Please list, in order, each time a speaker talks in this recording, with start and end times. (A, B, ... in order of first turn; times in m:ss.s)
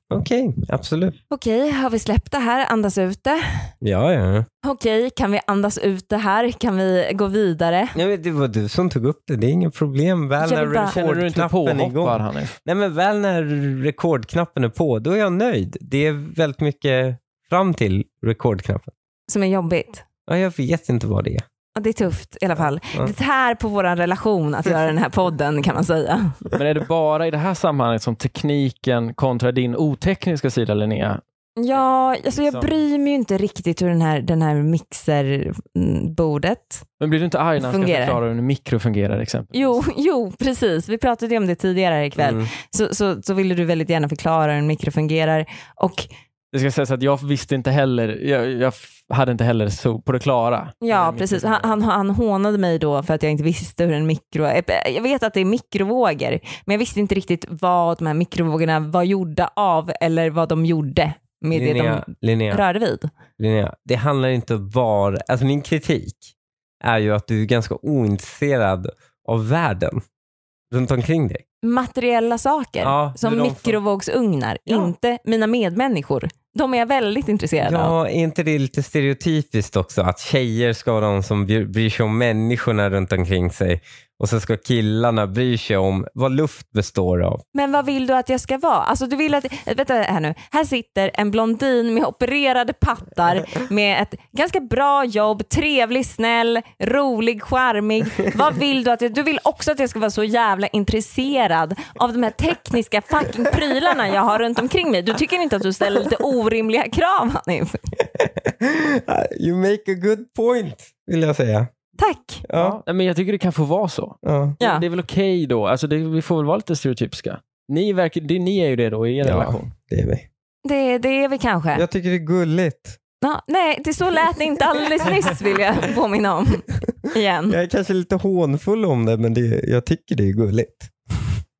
0:00.1-0:01.1 A
0:01.3-0:03.7 B
0:03.8-0:04.5 A
0:04.6-0:08.0 B
0:07.9-0:18.9 A
0:10.4-0:11.0 B
0:10.8-0:12.5 C
0:19.3-0:20.0 B
0:20.3-0:21.4 A
0:21.8-0:26.4 B
0:26.5-0:31.2 C
0:31.6-0:36.8 B
0:32.3-0:32.7 C
0:37.0-0:39.8 C
0:37.6-0:38.2 B
0:39.5-0:46.1 B
0:42.2-0:42.5 A
0:46.5-0:51.7 C
0:50.8-1:03.1 B
1:01.5-1:02.6 A
1:03.4-1:06.3 A
1:06.8-1:10.0 A
1:10.7-1:11.4 A
1:11.6-1:17.9 B
1:12.8-1:13.8 A
1:14.7-1:14.9 A
1:17.6-1:27.4 A
1:27.5-1:47.9 B
1:48.0-1:51.7 A
1:52.0-1:52.4 B
1:52.4-1:52.8 A
1:52.5-1:59.7 C
1:54.2-1:54.6 A
1:54.6-1:54.8 B
1:59.2-2:00.2 A
2:00.6-2:01.8 B
2:01.8-2:03.0 A
2:03.2-2:07.6 B
2:07.5-2:11.3 A